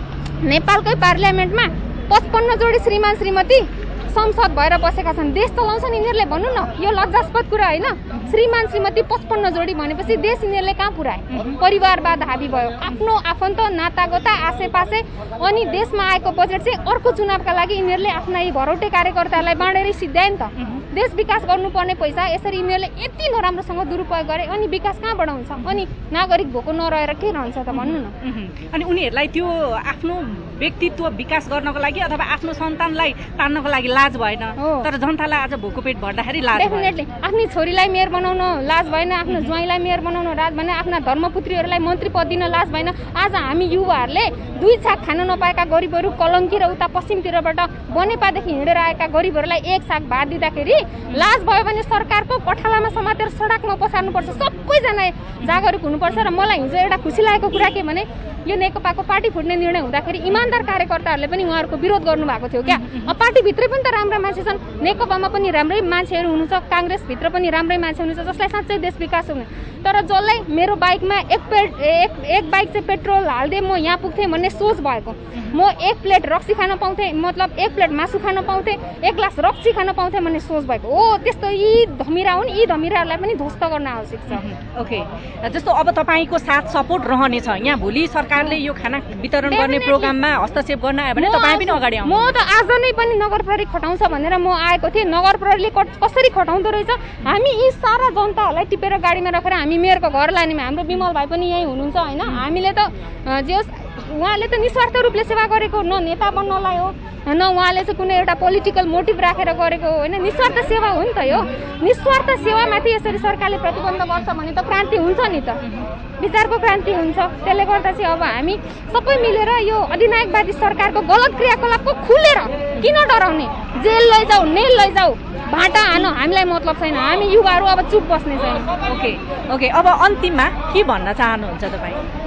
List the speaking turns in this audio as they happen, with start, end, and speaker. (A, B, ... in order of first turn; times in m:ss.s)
0:00.4-0:28.1 A
0:20.6-0:20.8 B
0:27.7-0:37.0 B
0:34.6-0:34.9 A
0:36.6-1:24.4 A
1:02.7-1:03.1 B
1:24.3-1:32.2 B
1:29.5-1:30.1 A
1:31.2-1:55.6 A
1:56.2-2:08.7 A
2:08.8-2:12.0 B